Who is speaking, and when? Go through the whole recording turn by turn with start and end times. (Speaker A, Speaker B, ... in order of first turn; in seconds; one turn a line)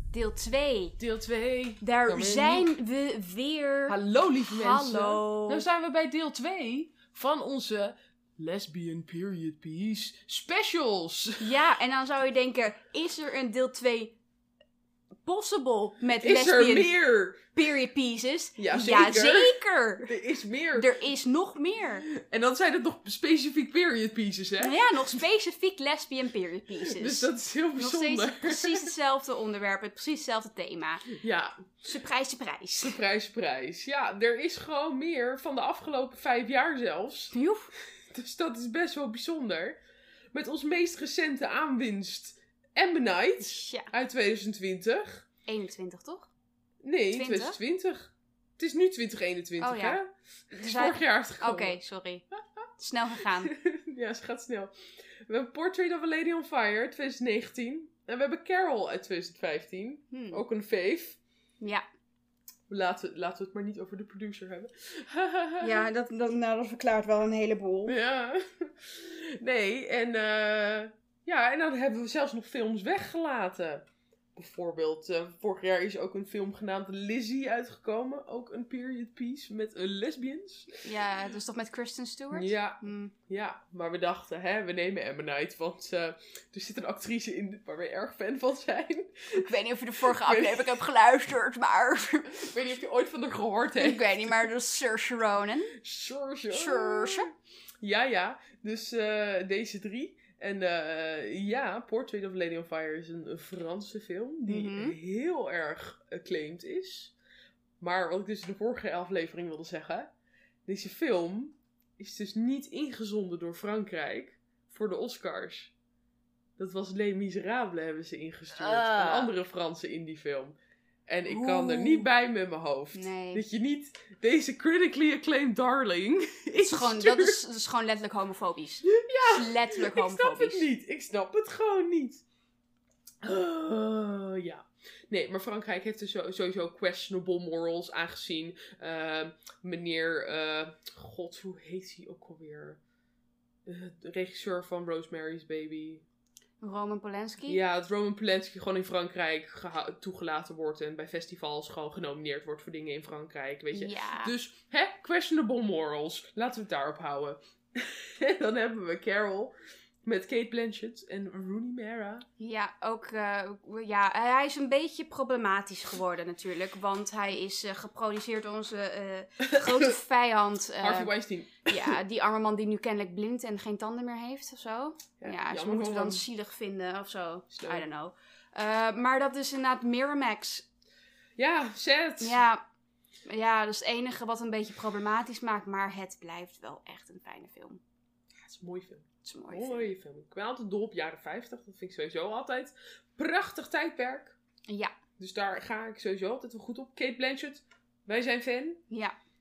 Speaker A: 0.1-1.0
Speaker B: 1.0-2.7
Speaker A: 1.8-4.0
Speaker B: 3.9-11.5
Speaker A: 4.5-5.7
Speaker A: 11.4-14.2
Speaker A: 15.3-16.9
Speaker B: 16.2-17.4
Speaker A: 17.5-20.1
Speaker B: 18.6-19.6
Speaker B: 20.1-21.0
Speaker A: 20.7-22.1
Speaker B: 22.1-25.2
Speaker A: 24.6-31.1
Speaker B: 26.8-28.9
Speaker B: 31.1-31.6
Speaker A: 31.8-33.0
Speaker B: 32.8-37.3
Speaker A: 37.3-37.7
Speaker B: 37.9-39.8
Speaker B: 40.3-45.2
Speaker A: 43.4-43.9
Speaker A: 45.5-46.3
Speaker B: 46.8-51.8
Speaker A: 47.1-47.6
Speaker A: 49.6-50.0
Speaker A: 50.5-52.2
Speaker A: 52.8-53.5
Speaker B: 53.2-54.7
Speaker B: 55.3-61.2
Speaker A: 60.1-60.4
Speaker B: 62.7-65.9
Speaker A: 65.6-68.0
Speaker B: 67.9-80.9
Speaker A: 80.8-83.1
Speaker B: 82.3-90.8
Speaker A: 89.3-92.5
Speaker B: 92.3-94.2
Speaker A: 93.8-95.8
Speaker B: 95.7-107.1
Speaker A: 96.5-97.3
Speaker A: 104.5-105.0
Speaker B: 107.8-110.1
Speaker B: 110.7-115.7
Speaker B: 116.6-120.5
Speaker A: 118.5-119.3
Speaker B: 121.1-127.4
Speaker A: 121.2-122.1
Speaker A: 122.9-123.4
Speaker A: 126.6-130.7
Speaker B: 128.9-132.2
Speaker B: 133.2-142.8
Speaker B: 143.7-146.1
Speaker A: 146.6-147.6
Speaker B: 147.5-159.5
Speaker A: 153.7-154.3
Speaker B: 160.1-162.3
Speaker A: 162.4-171.1
Speaker B: 169.5-169.9
Speaker B: 170.8-172.0
Speaker A: 171.7-180.7
Speaker B: 175.2-176.2
Speaker B: 177.5-177.8
Speaker B: 181.4-182.4
Speaker A: 182.2-182.6
Speaker A: 183.3-187.8
Speaker B: 188.3-194.4
Speaker A: 189.2-189.9
Speaker B: 195.2-198.8
Speaker A: 198.9-199.2